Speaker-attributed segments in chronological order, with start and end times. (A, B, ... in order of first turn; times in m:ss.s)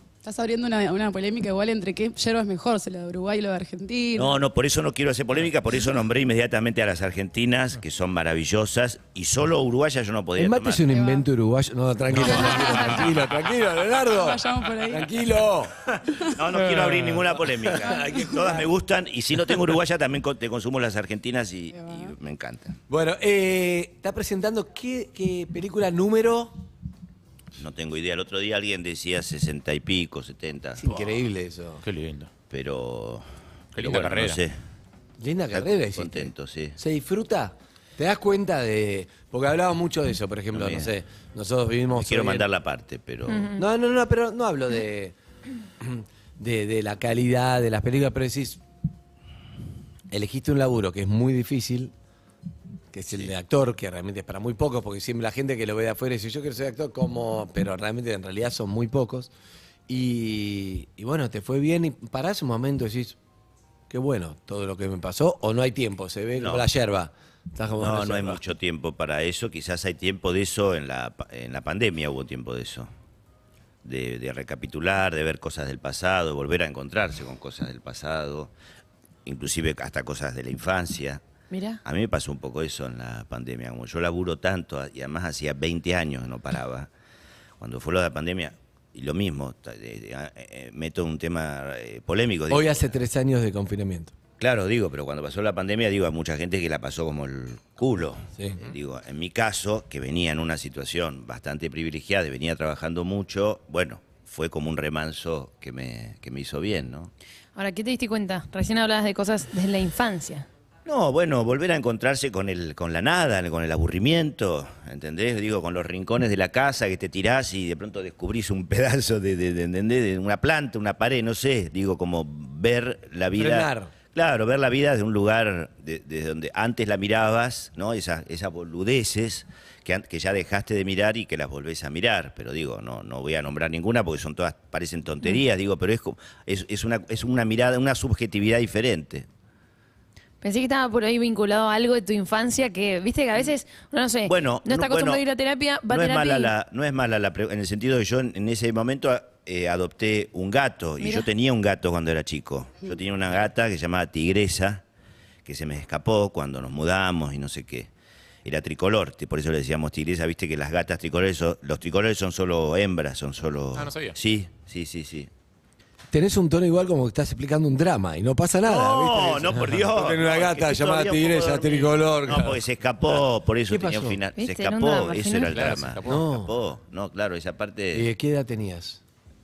0:00.2-0:04.3 A
0:04.1-0:10.8 B
0:10.4-0:16.3 C
0:10.9-0:11.2 A
0:12.2-0:13.1 D
0:12.2-0:13.1 E
0:14.1-0:15.1 A
0:16.2-0:22.8 B
0:16.7-0:17.2 D
0:17.5-0:18.7 C
0:21.7-0:22.1 A
0:22.9-0:26.6 C
0:27.6-0:31.0 B
0:30.8-0:31.8 C
0:31.8-0:32.3 D
0:32.5-0:33.2 B
0:33.7-0:34.4 D
0:33.8-0:34.6 B
0:35.2-0:42.4 C
0:35.5-0:36.8 B
0:40.5-0:40.9 B
0:42.0-0:43.5 B
0:43.3-0:43.6 E
0:43.6-0:45.1 C
0:45.8-0:48.6 C
0:50.1-0:51.9 C
0:52.9-0:59.3 C
0:59.9-1:03.2 C
1:03.9-1:08.4 C
1:06.4-1:06.7 B
1:07.8-1:12.9 B
1:13.8-1:18.5 B
1:19.2-1:21.2 B
1:21.5-1:21.8 E
1:21.8-1:26.9 B
1:27.6-1:32.8 B
1:32.5-1:34.1 C
1:34.4-1:47.1 B
1:47.6-1:50.4 E
1:50.8-2:19.3 B
2:03.3-2:03.9 C
2:20.4-2:26.5 E
2:24.2-2:25.2 B
2:25.9-2:34.8 B
2:31.0-2:31.3 E
2:35.4-2:37.9 B
2:38.4-2:45.3 B
2:43.7-2:44.2 D
2:46.1-2:52.6 C
2:48.6-2:58.1 B
2:53.7-2:54.2 C
2:54.4-2:55.7 E
2:55.5-2:56.2 D
2:56.0-2:56.5 C
2:57.9-2:59.0 C